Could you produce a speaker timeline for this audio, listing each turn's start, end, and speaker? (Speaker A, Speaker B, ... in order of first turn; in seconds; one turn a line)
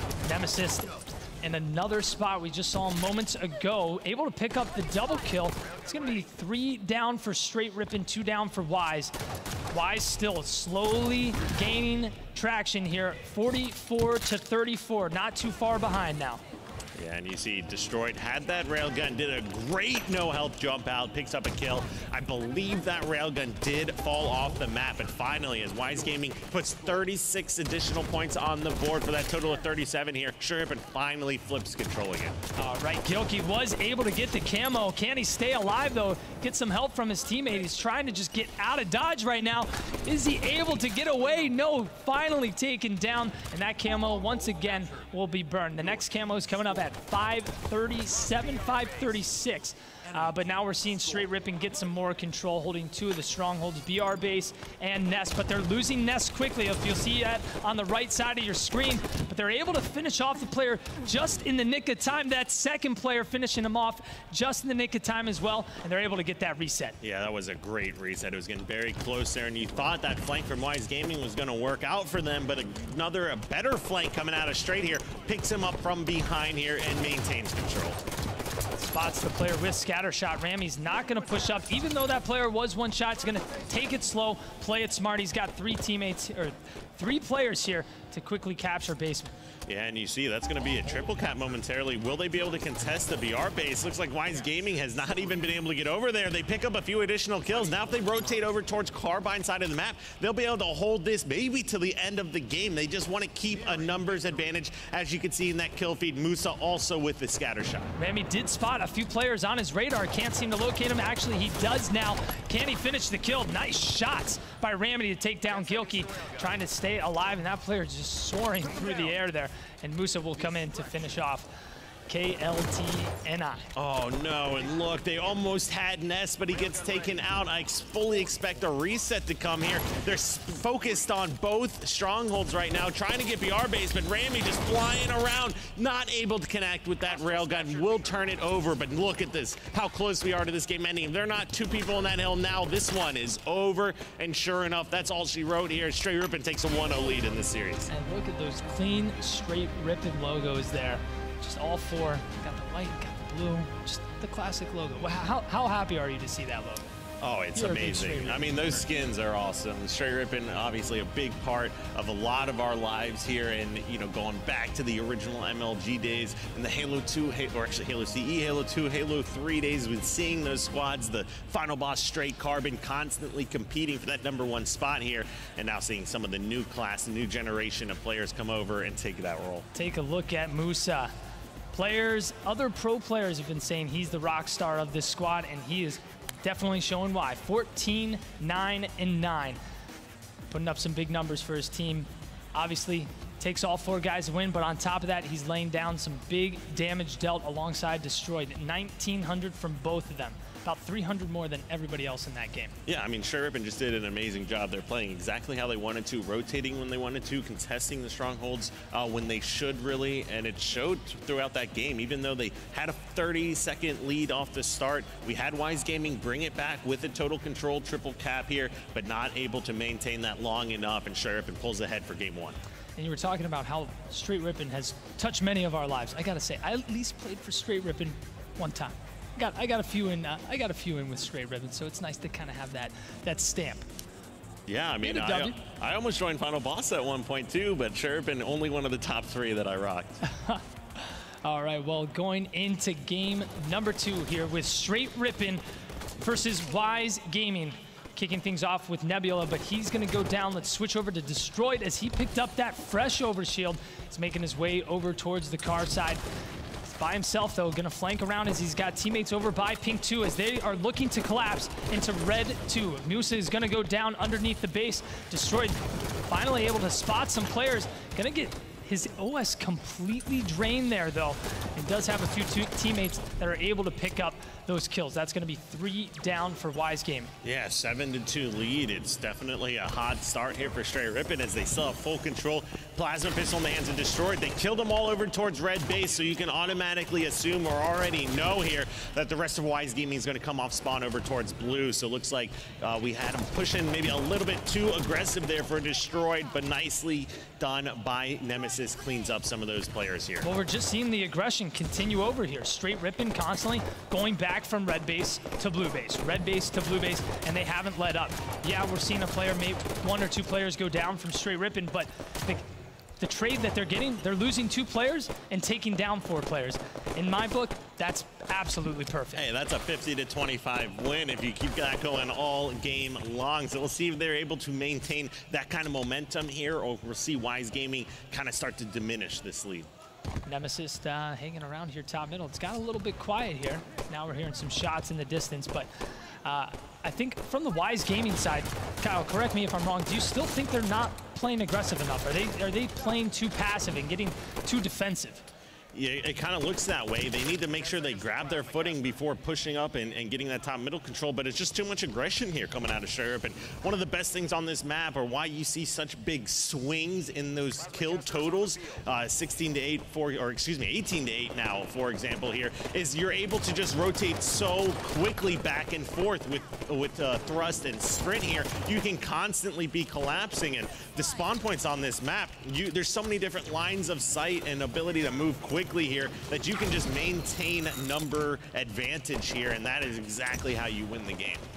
Speaker A: 0.2-9.1
Speaker A: 9.7-16.4
Speaker B: 17.0-32.4
Speaker A: 32.6-67.0
Speaker B: 67.0-78.0
Speaker A: 78.8-89.3
Speaker B: 89.7-107.9
Speaker A: 108.0-121.5
Speaker A: 122.1-123.7
Speaker B: 123.7-147.9
Speaker A: 147.9-156.8
Speaker B: 157.2-179.7
Speaker A: 157.5-158.8
Speaker A: 179.7-181.1
Speaker A: 181.7-189.6
Speaker A: 190.5-202.7
Speaker B: 202.9-222.6
Speaker A: 223.0-233.8
Speaker B: 234.7-240.2
Speaker A: 235.0-235.6
Speaker A: 240.2-240.6
Speaker A: 241.4-245.6
Speaker A: 246.2-256.2
Speaker A: 256.9-277.3
Speaker B: 277.4-300.5
Speaker A: 300.4-312.6
Speaker A: 313.2-319.4
Speaker B: 319.3-329.9
Speaker A: 330.4-335.9
Speaker A: 336.4-345.5
Speaker B: 345.9-381.6